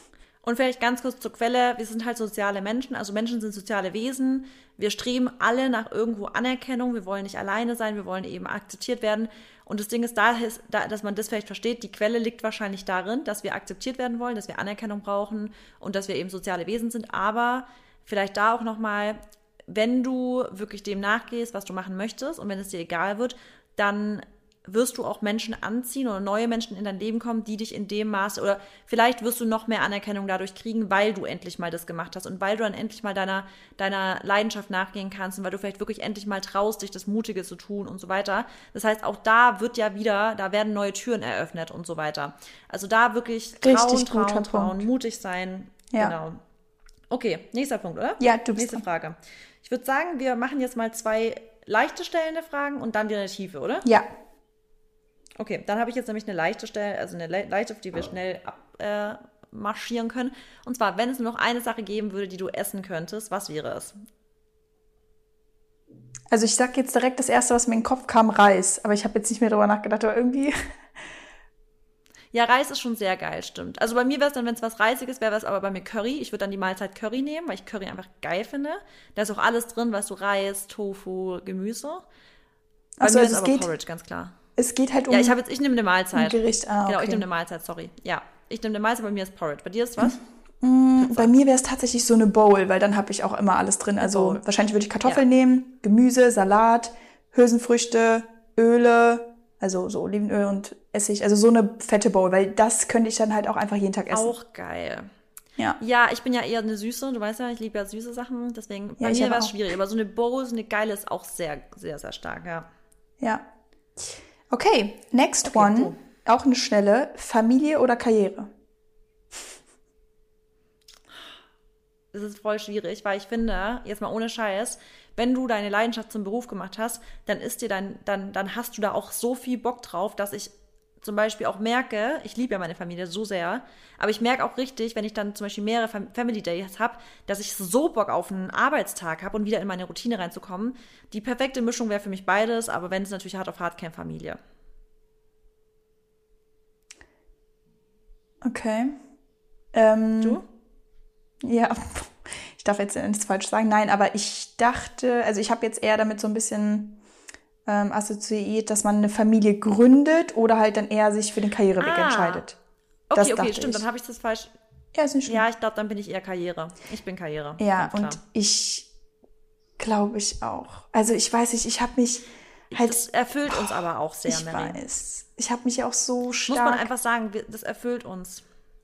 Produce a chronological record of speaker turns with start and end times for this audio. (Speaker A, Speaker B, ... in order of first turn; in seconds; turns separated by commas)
Speaker A: 0.4-46.4, Speaker B: 43.6-44.9, Speaker A: 47.1-53.9, Speaker B: 48.2-48.8, Speaker A: 55.4-63.9, Speaker B: 66.3-70.5, Speaker A: 72.3-82.0, Speaker B: 83.0-83.7, Speaker A: 83.0-84.3, Speaker B: 84.6-85.4, Speaker A: 85.1-90.2, Speaker B: 86.1-87.2, Speaker B: 90.0-104.3, Speaker A: 91.0-91.3, Speaker A: 94.0-94.4, Speaker A: 104.1-105.1, Speaker A: 105.8-112.7, Speaker B: 109.0-109.5, Speaker B: 114.0-118.5, Speaker A: 115.4-116.0, Speaker A: 122.1-144.4, Speaker B: 148.4-148.9, Speaker B: 149.7-150.4, Speaker B: 151.4-157.0, Speaker B: 157.7-162.6, Speaker A: 161.8-162.4, Speaker A: 163.1-164.5, Speaker B: 163.1-163.8, Speaker B: 164.9-165.4, Speaker A: 165.2-168.2, Speaker B: 167.6-168.9, Speaker B: 169.8-176.9, Speaker A: 172.7-174.8, Speaker A: 176.5-178.4